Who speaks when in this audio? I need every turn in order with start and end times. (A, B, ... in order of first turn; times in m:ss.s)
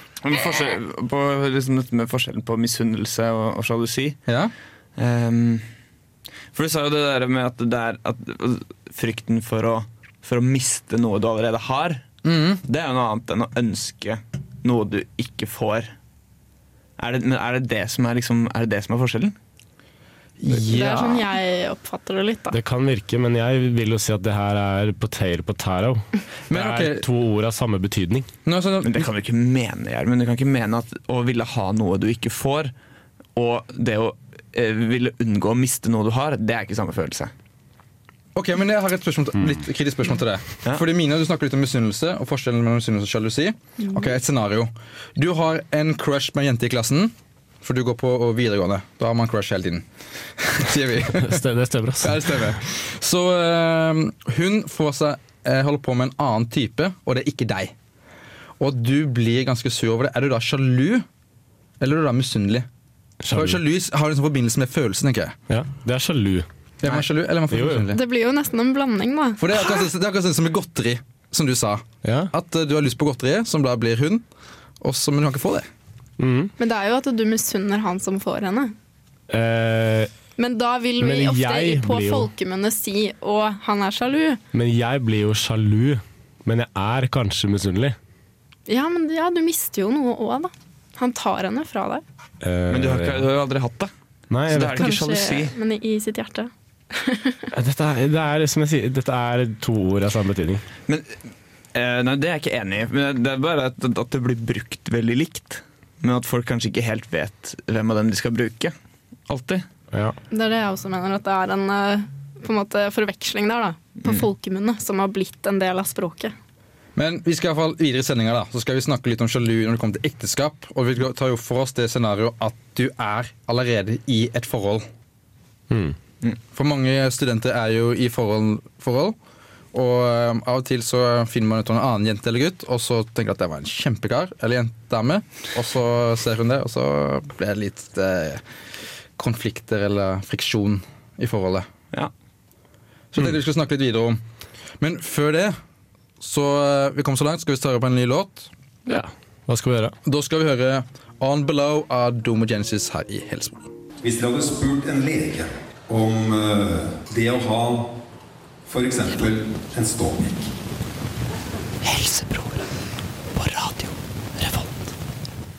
0:00.2-0:04.2 A
0:04.3-0:04.5 B
0:05.0-0:05.7 A
0:06.5-0:12.0 A
0:12.2-0:12.6 B
0:12.7-0:15.9 A
0:17.0-0:19.4 A
0:20.4-0:21.3 B
0:20.5-0:22.6 C
0:22.5-0:28.3 D
0:26.5-0:27.0 B
0:28.5-0:29.1 B
0:28.8-0:32.7 A
0:33.4-0:37.3 A
0:38.4-0:49.9 B
0:50.4-0:51.4 B
0:51.1-0:52.6 D
0:52.0-0:57.7 B
0:58.6-1:01.1 B
1:01.8-1:02.7 B
1:03.2-1:03.6 D
1:03.3-1:05.4 B
1:05.5-1:07.0 D
1:06.8-1:08.0 B
1:07.5-1:07.9 D
1:07.9-1:09.8 C
1:09.4-1:14.2 B
1:12.0-1:12.3 D
1:14.8-1:15.7 B
1:16.2-1:16.5 D
1:16.6-1:18.7 C
1:19.3-1:20.1 D
1:20.4-1:24.4 C
1:21.0-1:22.3 D
1:24.5-1:28.0 D
1:28.7-1:32.0 C
1:32.4-1:33.3 D
1:32.7-1:33.9 A
1:34.3-1:35.0 D
1:34.5-1:35.6 A
1:34.8-1:37.4 C
1:37.5-1:40.6 D
1:40.9-1:41.2 A
1:41.7-1:48.7 A
1:49.3-1:49.7 A
1:49.9-1:50.2 D
1:50.3-1:56.3 C
1:57.0-2:04.9 B
2:05.7-2:06.0 D
2:06.5-2:09.2 B
2:09.7-2:18.4 B
2:19.2-2:21.7 B
2:23.1-2:24.2 B
2:24.8-2:25.6 B
2:26.2-2:28.5 B
2:28.9-2:30.0 D
2:30.0-2:33.7 B
2:34.0-2:37.9 E
2:38.7-2:40.5 E
2:41.8-2:42.7 A
2:43.4-2:44.7 A